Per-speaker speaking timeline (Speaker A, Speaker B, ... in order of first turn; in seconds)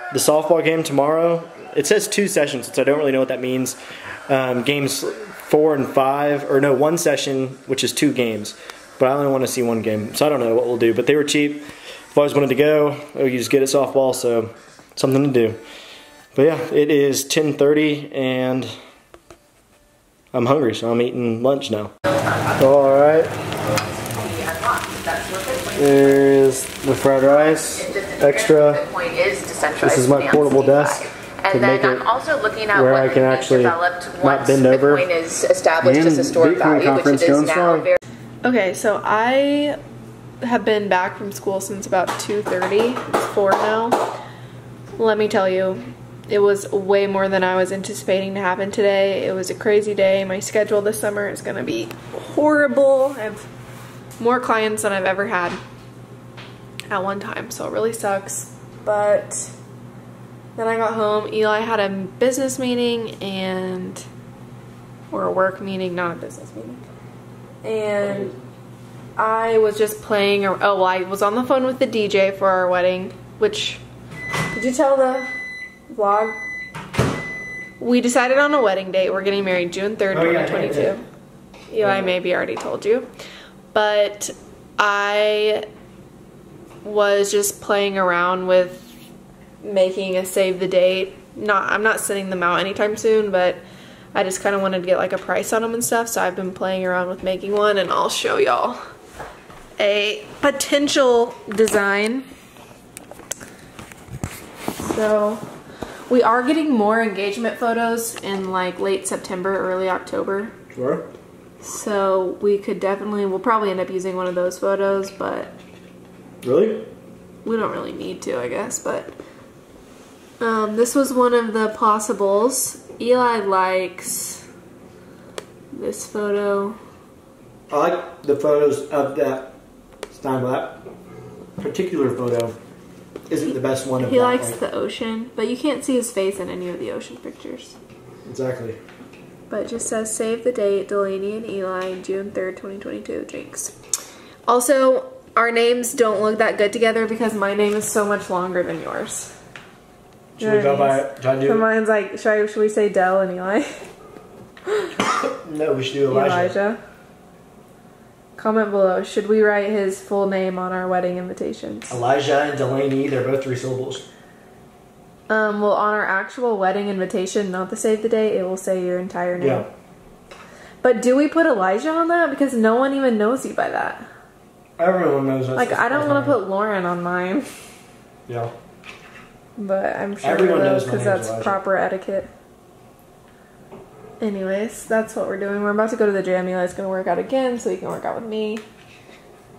Speaker A: 0.1-15.6, 16.4-18.7, 20.3-21.9, 22.6-23.3, 25.8-28.9, 29.8-32.1, 32.7-35.1, 35.8-37.9, 68.0-68.3, 80.1-81.0, 81.8-82.1, 110.7-111.0, 116.4-116.9, 127.7-129.5, 130.1-130.8, 131.6-132.6, 133.3-134.6, 138.2-138.8, 150.4-151.6, 155.0-156.6, 161.9-164.1, 169.4-169.7, 174.8-176.4, 178.3-178.5, 180.2-181.6
Speaker B: 22.1-22.9, 23.8-26.3, 27.2-38.0
Speaker C: 38.4-39.8, 40.4-44.1, 45.0-53.5, 54.2-55.6, 56.9-59.5, 60.6-64.0, 65.1-66.8, 67.6-68.3, 69.2-73.8, 74.5-75.3, 75.9-76.4, 77.8-81.0, 81.7-83.1, 83.7-85.7, 86.8-88.9, 89.6-93.6, 94.1-98.8, 99.8-102.3, 104.8-105.4, 106.1-110.5, 111.6-115.5, 117.4-119.1, 120.4-124.4, 125.7-126.8, 134.0-137.8, 139.5-143.7, 144.5-149.3, 150.4-153.8, 156.1-156.8, 158.4-162.0, 165.3-169.7, 170.8-174.1, 175.6-177.5, 179.6-182.3, 184.2-188.6